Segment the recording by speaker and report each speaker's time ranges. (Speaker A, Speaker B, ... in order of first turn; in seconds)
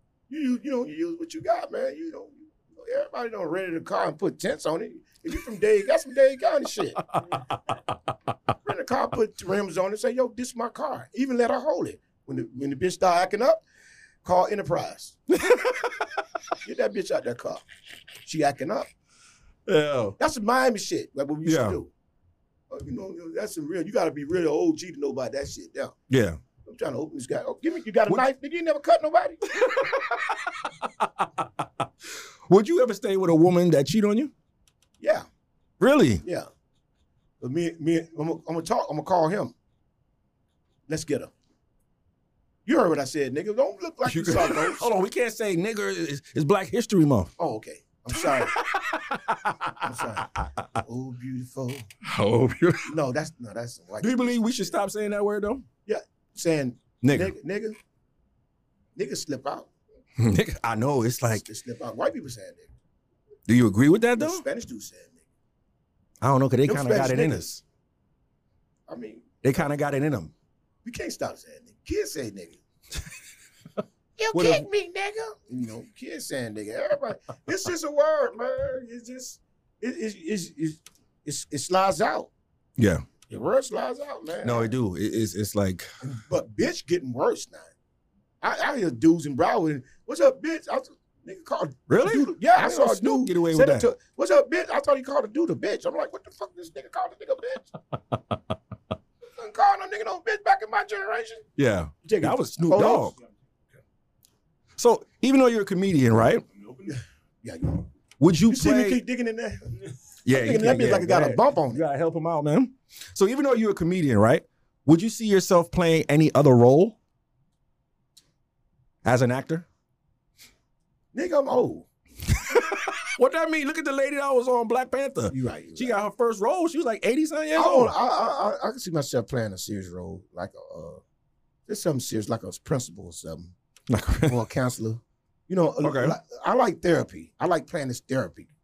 Speaker A: 0.3-7.0, 8.6-13.6, 14.2-15.2, 16.6-17.6, 18.2-18.9, 20.2-21.9, 22.7-25.9, 26.6-29.4, 35.0-35.3, 36.2-36.5, 37.4-39.5, 40.9-41.3, 42.7-44.9, 47.4-48.6, 49.8-51.9, 52.9-54.7, 55.9-57.8, 59.0-59.7, 61.4-62.7, 64.2-65.2, 66.7-67.5, 68.9-69.3, 70.8-72.6, 74.3-74.7, 75.4-82.3, 83.3-84.7, 86.0-87.7, 88.4-97.7, 99.4-101.5, 102.0-103.2, 106.9-107.9, 108.5-109.8, 110.3-111.8, 121.1-121.9, 125.3-126.0, 127.5-131.0, 131.7-133.5, 134.3-138.5
Speaker B: 15.3-16.2, 19.7-20.2, 21.4-21.8, 26.1-26.4, 29.5-34.3, 35.8-36.2, 44.1-47.3, 48.1-50.7, 52.0-52.9, 54.0-55.7, 57.0-57.3, 60.2-61.4, 63.5-64.4, 66.2-67.6, 69.4-70.3, 74.3-74.7, 82.8-83.1, 84.4-85.9, 91.9-93.9, 98.1-98.4, 101.6-103.2, 104.8-106.5, 108.2-109.0, 110.2-117.0, 119.0-119.7, 122.3-127.9, 133.9-134.4, 135.8-136.2